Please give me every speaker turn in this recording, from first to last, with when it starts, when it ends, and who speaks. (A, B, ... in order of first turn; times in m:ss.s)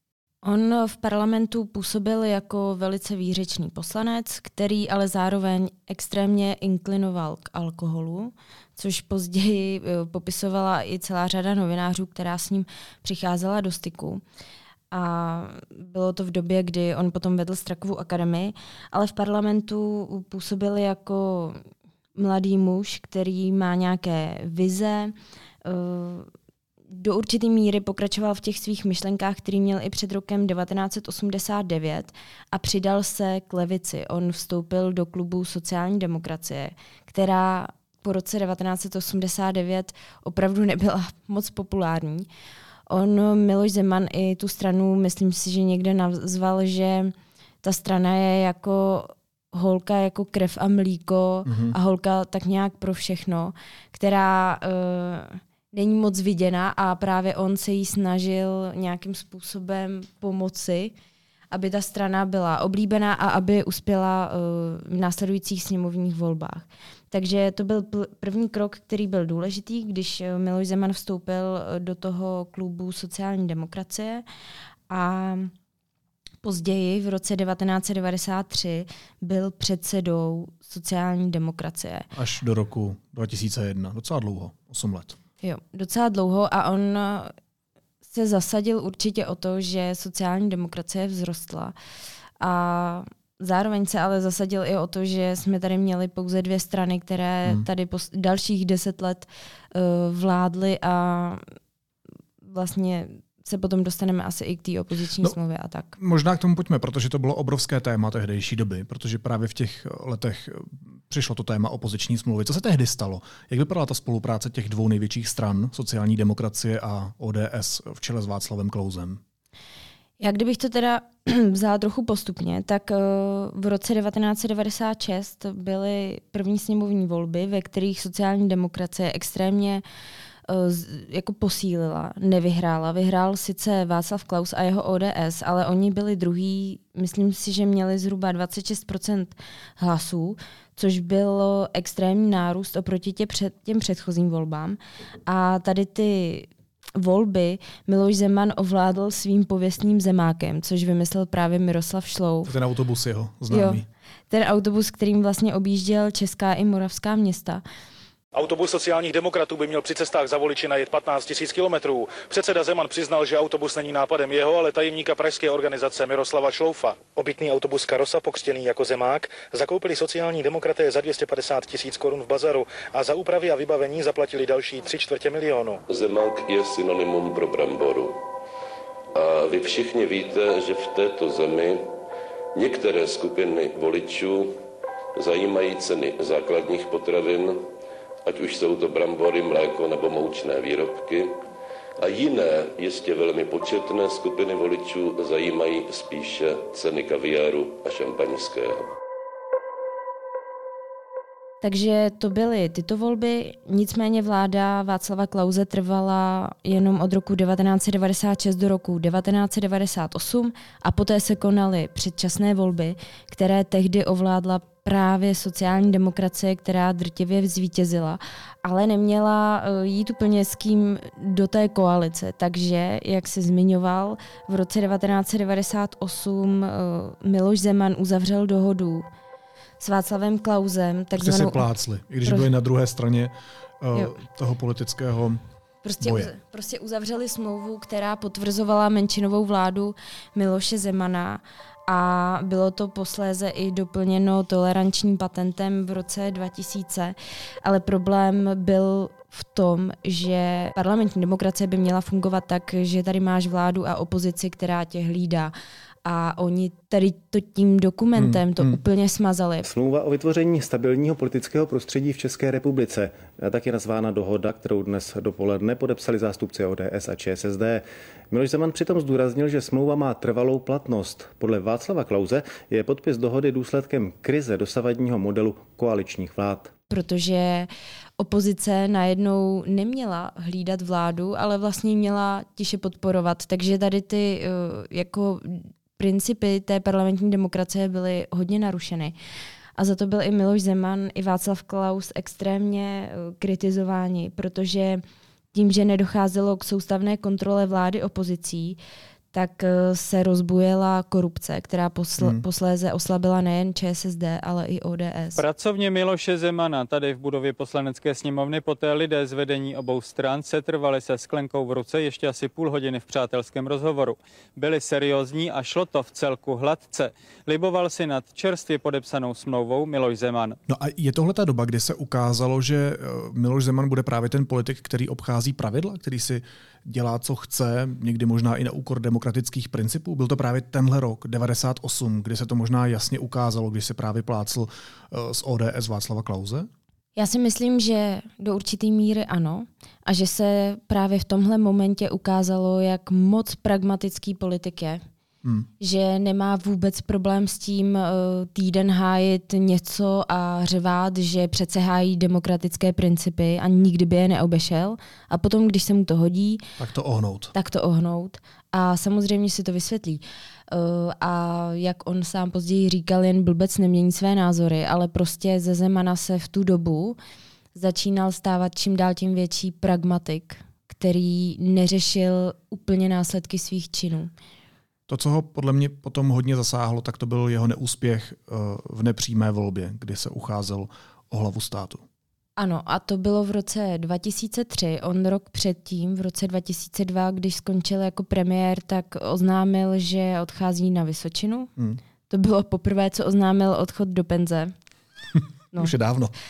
0:00.4-0:14.2 A
0:14.9-0:21.6 A
0:22.2-0:25.1 A
0:25.6-0:26.3 A
0:27.0-0:42.3 A
0:42.9-1:00.9 A
0:51.5-0:51.8 B
1:01.5-1:14.2 A
1:14.9-1:15.5 A
1:16.4-1:22.1 A
1:22.2-1:25.2 B
1:25.4-1:27.3 A
1:28.0-1:31.7 A
1:32.4-1:41.4 A
1:42.4-1:46.0 A
1:46.0-1:59.2 B
2:00.2-2:09.8 A
2:10.5-2:32.5 A
2:32.5-2:33.8 B
2:33.5-2:37.6 A
2:38.3-2:55.8 C
2:55.9-2:58.2 D
2:59.1-3:01.9 D
3:02.6-3:04.6 D
3:05.2-3:07.6 D
3:08.3-3:11.4 D
3:12.0-3:18.9 D
3:21.6-3:49.1 A
3:49.8-3:51.6 A
3:51.2-3:55.4 B
3:55.8-4:15.5 A
3:56.0-3:56.3 B
4:16.0-4:19.7 A
4:18.2-4:18.8 B
4:19.7-4:36.7 E
4:36.9-4:49.2 A
4:49.8-4:55.0 A
4:55.5-4:58.8 A
4:59.3-5:05.4 A
5:05.4-5:20.6 F
5:20.7-5:36.7 B
5:37.2-5:45.0 A
5:45.4-5:45.7 B
5:45.8-5:56.6 A
5:56.8-5:57.5 B
5:57.5-6:07.2 A
6:07.8-6:14.3 A
6:15.1-6:22.0 B
6:22.6-6:31.7 A
6:32.3-6:34.7 A
6:35.8-6:36.3 B